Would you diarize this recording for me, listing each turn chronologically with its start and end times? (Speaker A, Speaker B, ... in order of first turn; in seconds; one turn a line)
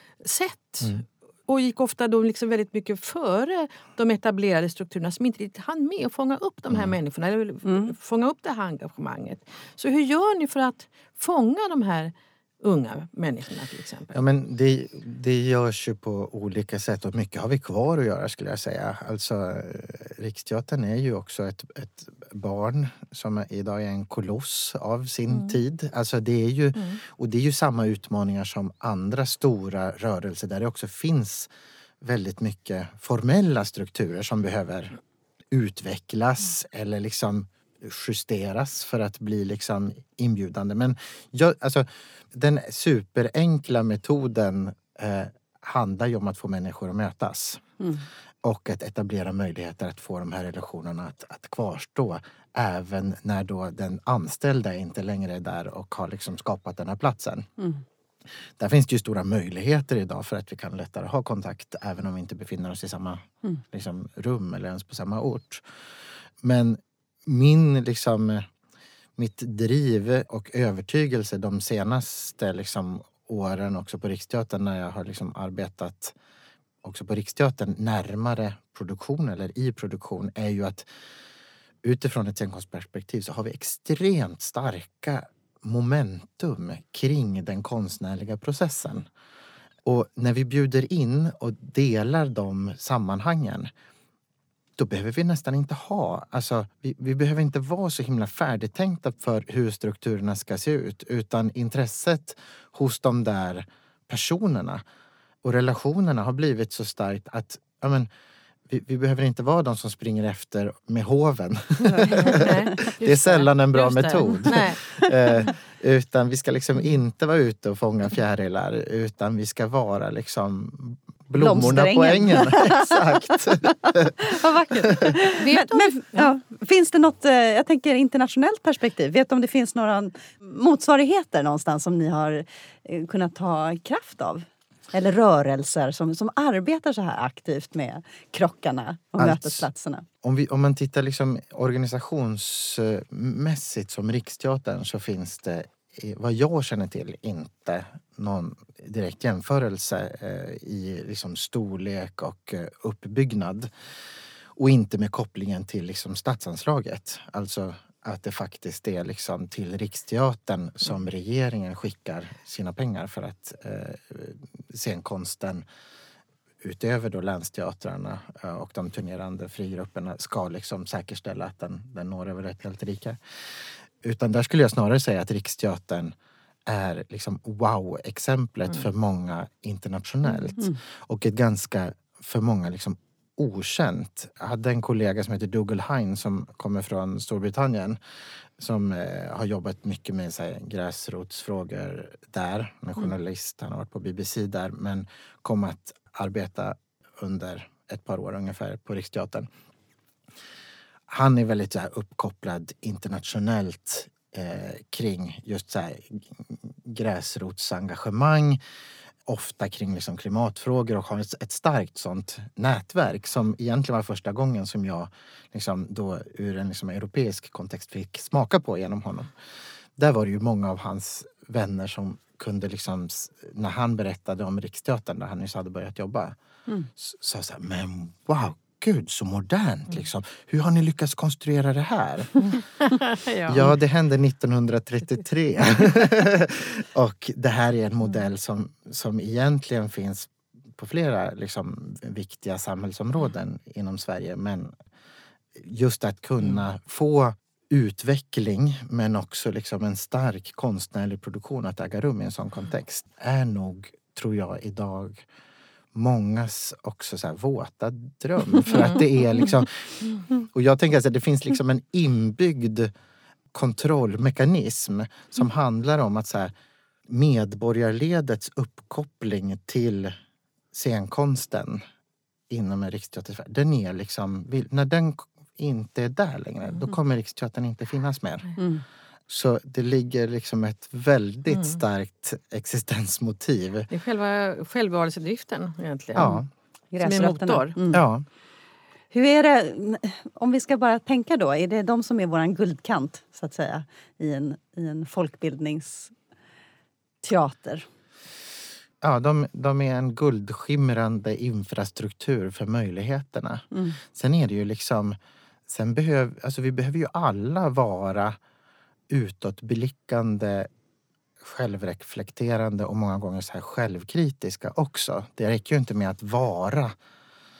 Speaker A: 0.2-14.2
Speaker B: 7.6-7.9
Speaker C: 14.1-31.5
Speaker C: 32.0-35.0
Speaker C: 35.5-47.7
Speaker B: 47.8-48.0
Speaker C: 48.4-57.5
Speaker C: 58.6-65.6
Speaker C: 66.4-68.5
Speaker C: 69.2-76.1
Speaker C: 76.8-80.8
Speaker C: 81.8-89.1
Speaker C: 89.8-93.7
Speaker C: 94.8-104.8
Speaker C: 105.4-108.1
Speaker C: 108.7-125.1
Speaker A: 111.8-115.0
Speaker B: 121.3-140.0
Speaker A: 125.4-126.3
Speaker C: 139.2-139.7
Speaker C: 140.2-153.7
Speaker C: 154.5-165.6
Speaker C: 166.6-176.1
Speaker C: 176.7-188.0
Speaker C: 188.6-199.5
Speaker C: 201.1-208.6
Speaker C: 209.2-219.3
Speaker C: 219.9-226.3
Speaker C: 226.9-232.4
Speaker A: 232.4-233.7
Speaker C: 233.5-244.7
Speaker C: 245.5-255.2
Speaker C: 255.9-262.9
Speaker A: 258.6-259.0
Speaker C: 263.5-266.5
Speaker C: 267.1-270.1
Speaker C: 270.7-271.8
Speaker C: 272.5-278.5
Speaker B: 278.6-278.8
Speaker C: 279.3-283.9
Speaker A: 283.9-286.3
Speaker C: 286.1-286.5
Speaker B: 286.9-288.0
Speaker A: 287.0-287.8
Speaker C: 287.9-288.2
Speaker B: 289.1-296.1
Speaker B: 297.2-297.9
Speaker C: 299.0-308.4
Speaker B: 303.7-304.0
Speaker C: 309.1-310.7
Speaker C: 311.4-316.9